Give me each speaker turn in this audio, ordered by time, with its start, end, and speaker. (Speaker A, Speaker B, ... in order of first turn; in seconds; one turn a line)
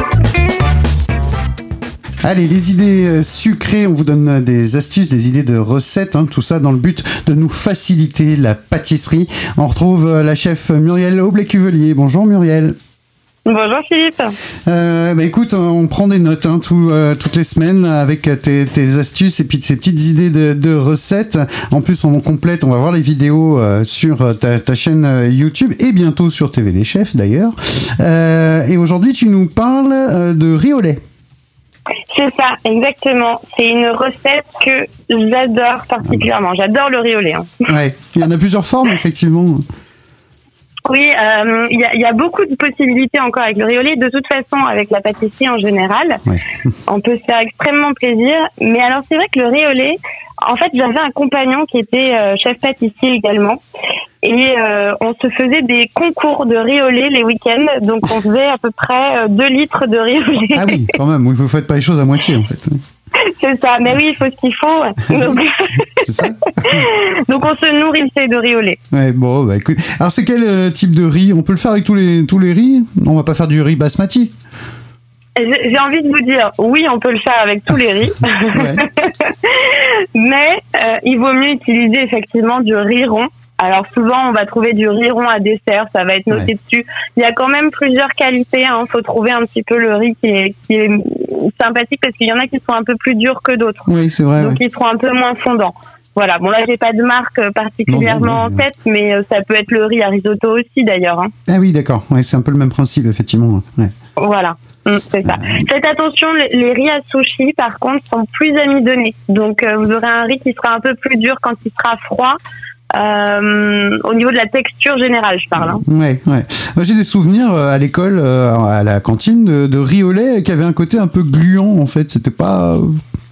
Speaker A: 2.2-12.7
Speaker B: 13.4-14.3
Speaker A: 14.7-31.0
Speaker B: 32.1-37.5
Speaker A: 37.7-39.6
Speaker B: 40.9-46.2
Speaker B: 46.9-53.6
Speaker B: 54.2-60.9
Speaker A: 60.5-62.8
Speaker B: 63.2-68.8
Speaker A: 65.1-65.4
Speaker A: 66.0-66.9
Speaker A: 68.9-74.3
Speaker B: 75.4-101.3
Speaker A: 78.5-78.8
Speaker A: 93.9-94.6
Speaker A: 97.9-98.7
Speaker A: 101.5-103.9
Speaker B: 104.2-112.4
Speaker A: 105.2-105.7
Speaker B: 113.0-115.8
Speaker A: 115.6-123.0